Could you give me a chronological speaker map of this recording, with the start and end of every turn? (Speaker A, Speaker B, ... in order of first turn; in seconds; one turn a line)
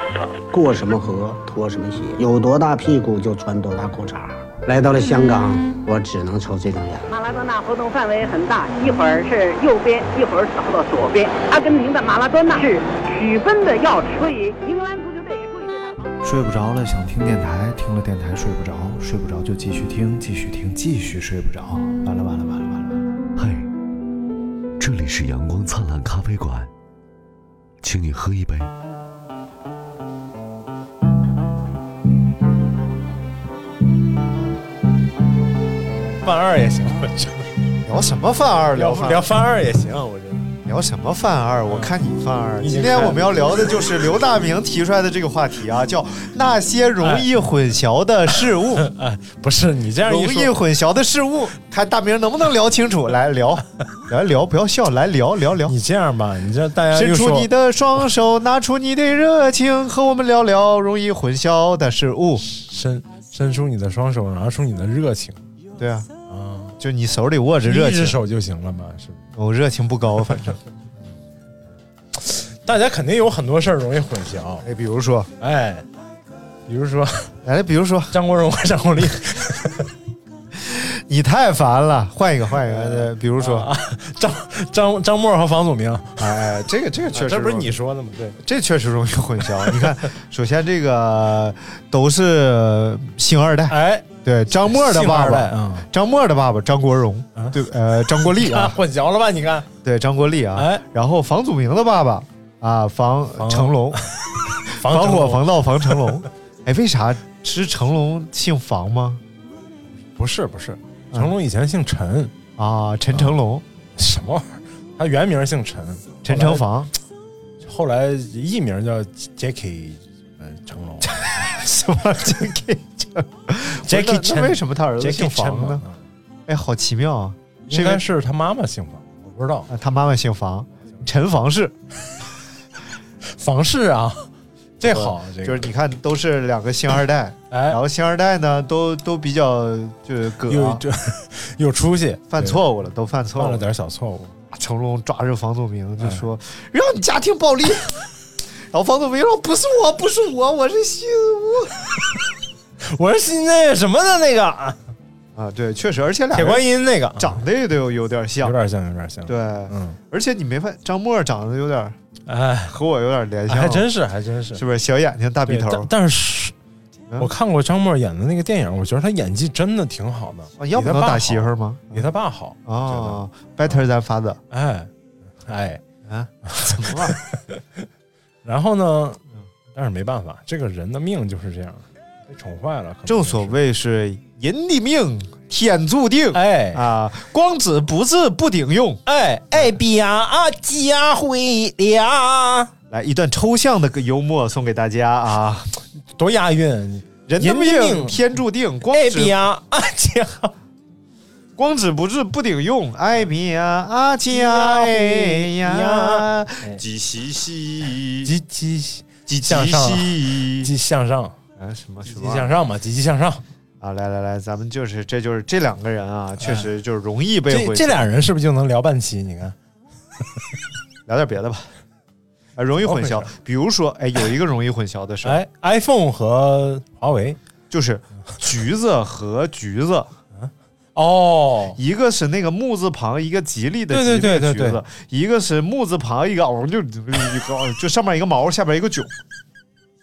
Speaker A: 0.5-7.1
Speaker B: 7.1-16.2
Speaker C: 16.2-22.9
Speaker D: 23.4-23.7
Speaker D: 24.8-26.7
Speaker D: 27.8-28.7
Speaker E: 36.2-37.5
Speaker F: 37.9-39.3
Speaker E: 38.8-40.5
Speaker F: 40.6-48.9
Speaker E: 42.6-43.5
Speaker E: 47.0-47.3
Speaker E: 48.8-50.5
Speaker F: 50.0-55.8
Speaker E: 55.6-57.5
Speaker F: 56.9-62.4
Speaker E: 62.4-65.4
Speaker F: 65.8-66.1
Speaker E: 66.3-66.8
Speaker F: 66.8-68.2
Speaker E: 67.6-69.2
Speaker F: 69.3-70.6
Speaker E: 72.2-74.7
Speaker F: 74.6-75.3
Speaker E: 75.4-75.8
Speaker E: 76.7-77.3
Speaker F: 77.4-78.2
Speaker E: 78.1-79.9
Speaker F: 80.5-83.7
Speaker E: 82.6-86.3
Speaker F: 86.2-87.7
Speaker E: 87.1-88.4
Speaker F: 88.4-98.8
Speaker E: 93.7-94.1
Speaker E: 94.7-95.9
Speaker E: 98.2-99.7
Speaker F: 99.8-104.0
Speaker E: 100.6-100.8
Speaker E: 103.4-106.0
Speaker F: 104.7-109.2
Speaker E: 110.2-112.3
Speaker F: 112.6-113.7
Speaker E: 114.0-116.7
Speaker F: 116.2-116.9
Speaker E: 117.6-121.1
Speaker F: 121.0-125.8
Speaker E: 123.8-126.0
Speaker F: 126.5-128.1
Speaker E: 127.7-129.7
Speaker F: 129.7-131.7
Speaker E: 133.3-135.7
Speaker F: 134.8-140.8
Speaker E: 137.5-137.8
Speaker E: 140.5-142.6
Speaker F: 142.3-143.7
Speaker E: 143.4-144.3
Speaker F: 144.5-148.1
Speaker F: 148.7-151.7
Speaker E: 152.9-154.8
Speaker F: 155.3-156.6
Speaker E: 156.3-157.4
Speaker F: 157.2-158.6
Speaker E: 158.4-160.0
Speaker F: 159.3-161.9
Speaker E: 162.3-162.8
Speaker F: 162.7-163.9
Speaker E: 163.5-164.6
Speaker F: 164.5-165.9
Speaker E: 165.5-166.5
Speaker E: 167.2-173.8
Speaker F: 170.6-172.1
Speaker F: 172.7-174.4
Speaker E: 174.5-174.9
Speaker E: 175.4-175.8
Speaker F: 176.1-177.2
Speaker E: 176.5-177.6
Speaker E: 178.4-179.2
Speaker E: 179.7-183.6
Speaker F: 183.1-189.0
Speaker E: 186.3-186.8
Speaker E: 189.1-192.7
Speaker F: 192.9-195.7
Speaker E: 196.1-198.2
Speaker F: 197.3-199.4
Speaker E: 198.9-200.5
Speaker F: 201.6-208.3
Speaker E: 204.3-206.8
Speaker E: 208.2-211.4
Speaker F: 209.3-210.7
Speaker F: 211.6-212.5
Speaker E: 212.1-213.4
Speaker F: 213.8-218.0
Speaker E: 216.4-216.7
Speaker E: 217.5-219.6
Speaker F: 221.1-221.7
Speaker F: 222.6-225.4
Speaker E: 222.8-223.3
Speaker E: 225.2-227.4
Speaker F: 227.7-230.1
Speaker E: 230.4-231.8
Speaker F: 231.8-239.1
Speaker E: 233.9-234.8